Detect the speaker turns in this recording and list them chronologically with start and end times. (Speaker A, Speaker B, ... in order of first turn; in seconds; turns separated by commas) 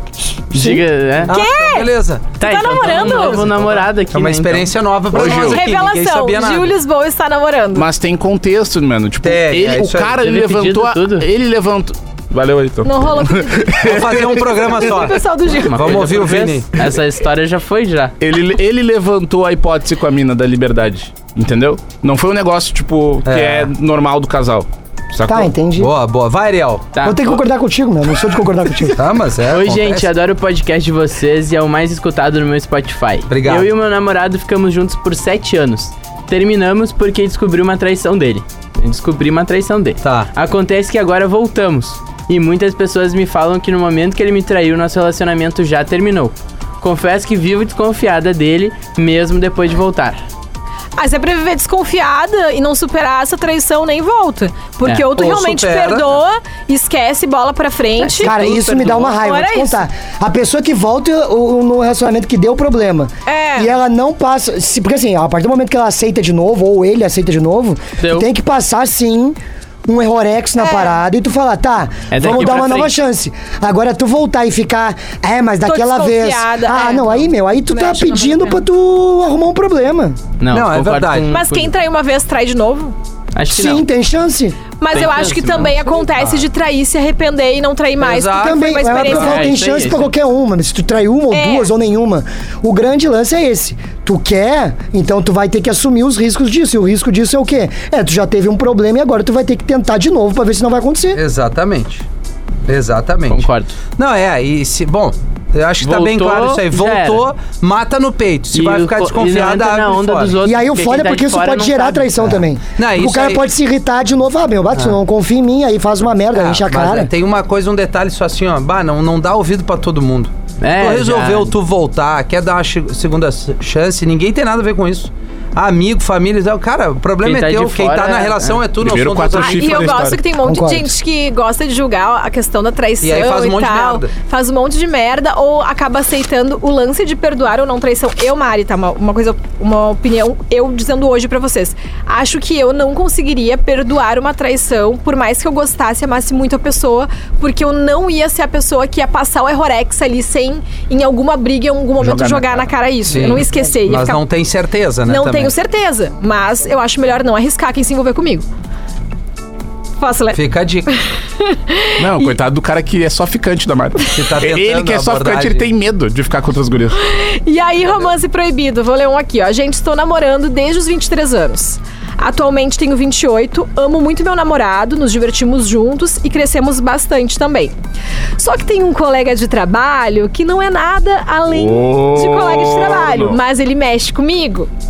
Speaker A: 0.5-0.8, Speaker B: 0.5-1.3, Speaker C: 1.3-6.7, Speaker D: 1.3-3.5, Speaker B: 2.4-4.7, Speaker E: 5.1-5.7, Speaker D: 5.1-7.9, Speaker E: 7.8-14.5, Speaker C: 9.2-10.2, Speaker B: 10.2-11.3, Speaker D: 12.8-16.0, Speaker C: 13.8-16.9, Speaker B: 15.7-18.1, Speaker E: 18.2-25.5, Speaker C: 23.3-23.7, Speaker A: 25.3-25.9, Speaker C: 25.8-26.9, Speaker B: 26.9-27.3, Speaker A: 27.0-29.0, Speaker C: 28.9-30.1, Speaker B: 29.5-50.2, Speaker C: 33.3-33.7, Speaker C: 40.0-40.3, Speaker D: 51.0-58.5, Speaker C: 55.1-56.2, Speaker B: 58.0-59.2, Speaker A: 58.2-80.2, Speaker D: 59.1-59.8, Speaker D: 63.3-63.7, Speaker B: 68.0-68.3, Speaker D: 70.6-71.0, Speaker B: 72.1-72.9, Speaker D: 75.7-77.3, Speaker C: 77.8-78.4, Speaker D: 78.0-78.3, Speaker B: 80.4-81.7, Speaker C: 80.5-81.3, Speaker D: 81.3-83.0, Speaker B: 83.3-83.8, Speaker A: 83.5-84.6, Speaker D: 84.8-89.5, Speaker B: 84.9-86.3, Speaker C: 88.0-89.4, Speaker A: 88.4-101.2, Speaker B: 89.1-90.1, Speaker D: 91.3-91.7, Speaker C: 101.1-102.0, Speaker C: 102.7-110.3, Speaker B: 103.3-103.8, Speaker B: 105.8-107.2, Speaker B: 108.5-112.4, Speaker A: 110.4-117.1, Speaker C: 112.8-113.4, Speaker C: 116.3-130.0, Speaker B: 120.6-121.5, Speaker B: 127.2-128.7, Speaker E: 128.8-130.2, Speaker D: 129.3-154.2, Speaker A: 130.4-130.9, Speaker C: 133.0-134.1, Speaker E: 152.0-152.7, Speaker C: 153.1-155.5, Speaker D: 155.1-158.5, Speaker D: 160.0-162.3, Speaker C: 160.3-160.9, Speaker E: 162.0-167.0, Speaker C: 164.1-165.7, Speaker D: 166.9-177.8, Speaker D: 178.4-184.7, Speaker E: 181.5-183.4